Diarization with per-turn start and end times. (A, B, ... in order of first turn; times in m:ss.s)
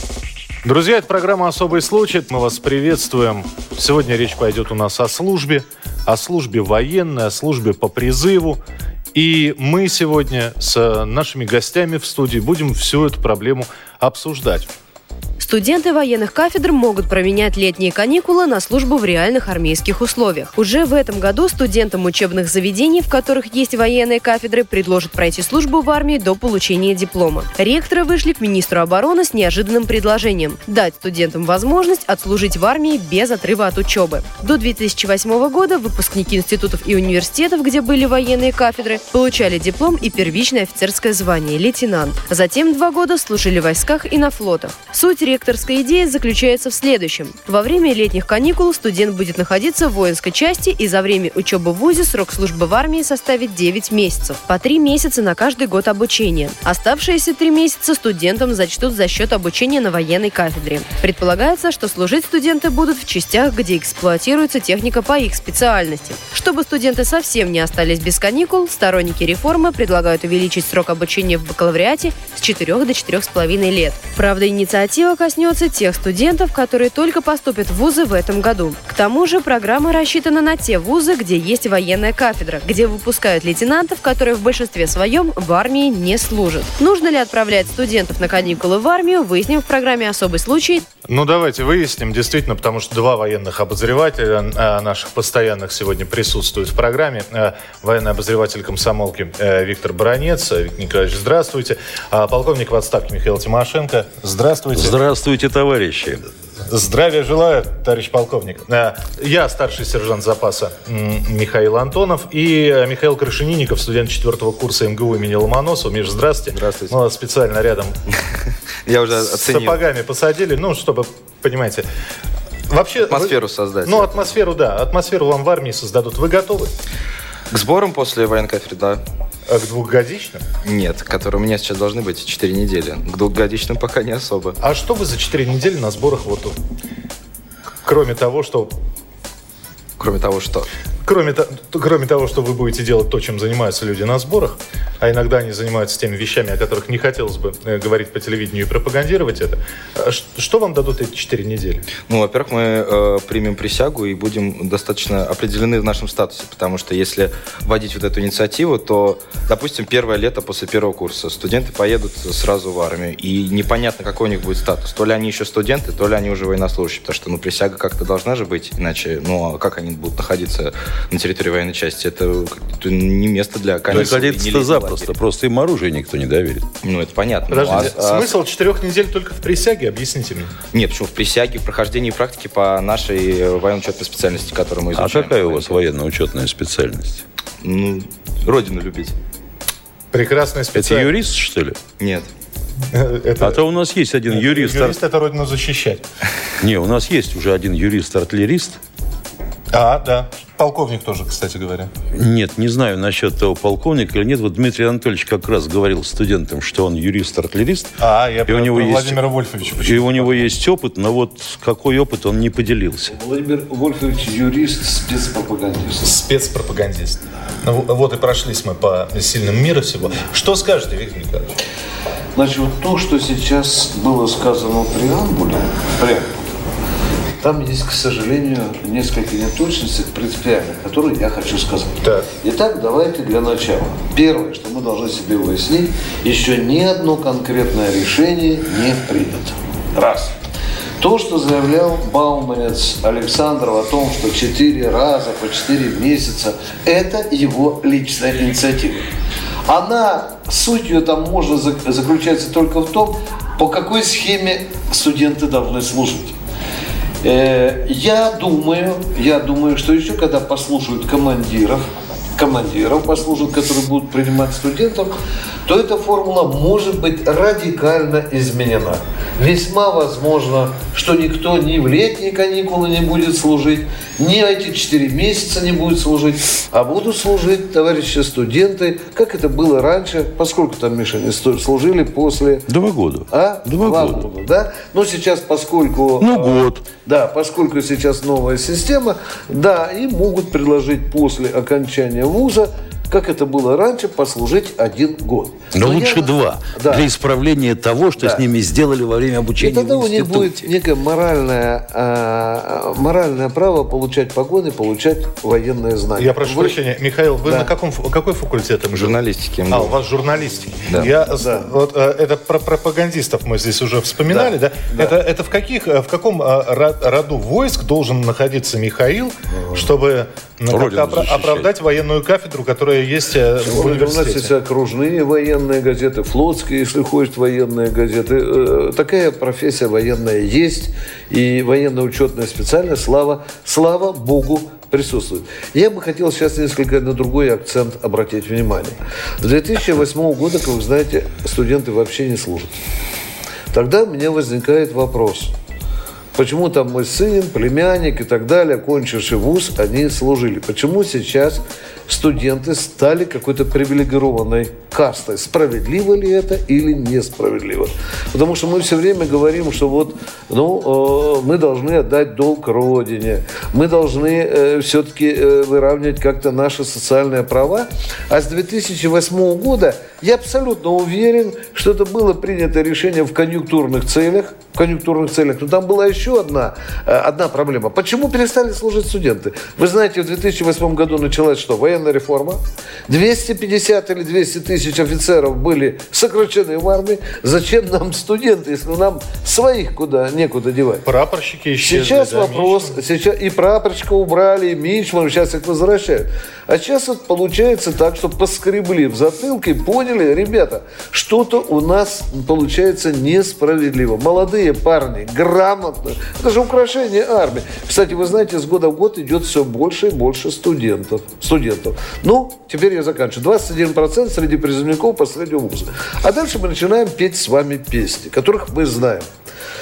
0:00.6-0:08.6 A
0:09.1-0:14.7 A
0:15.4-1:30.8 B
1:31.1-1:45.0 A
1:44.7-1:46.2 C
1:46.7-1:58.0 A
1:56.5-1:56.9 D
1:58.8-1:59.8 D
1:59.1-2:01.8 A
2:02.7-2:06.7 A
2:03.1-2:04.3 D
2:07.5-2:09.0 D
2:09.5-2:10.4 A
2:10.6-2:14.6 D
2:14.6-2:16.6 A
2:17.8-2:18.7 A
2:20.0-2:20.7 D
2:21.0-2:31.9 A
2:32.1-2:55.1 D
2:53.9-2:56.7 C
2:56.8-2:58.3 D
2:57.5-3:00.5 A
3:00.7-3:05.8 D
3:04.9-3:07.2 C
3:07.6-3:09.1 D
3:10.1-3:11.1 A
3:10.7-3:11.8 C
3:12.0-3:12.3 D
3:12.9-3:13.6 A
3:13.4-3:15.0 C
3:14.3-3:16.0 A
3:16.6-3:18.8 C
3:19.7-3:21.9 A
3:22.1-3:33.2 C
3:28.0-3:30.4 A
3:33.1-3:36.1 E
3:36.0-3:41.6 A
3:42.3-3:46.5 E
3:47.4-4:00.3 E
4:01.0-4:09.1 E
4:09.6-4:16.4 E
4:17.2-4:42.7 E
4:42.7-4:44.2 C
4:43.3-4:57.1 E
4:46.2-4:46.8 C
4:55.7-5:00.7 C
4:58.2-4:58.4 E
4:59.6-5:06.8 E
5:06.2-5:24.5 A
5:07.4-5:07.7 E
5:08.9-5:10.0 D
5:10.9-5:11.1 D
5:11.4-5:11.7 E
5:14.3-5:15.2 E
5:20.7-5:21.7 C
5:23.6-5:42.8 E
5:43.7-5:45.5 E
5:46.3-6:31.0 E
6:31.0-6:33.0 A
6:31.8-6:59.3 E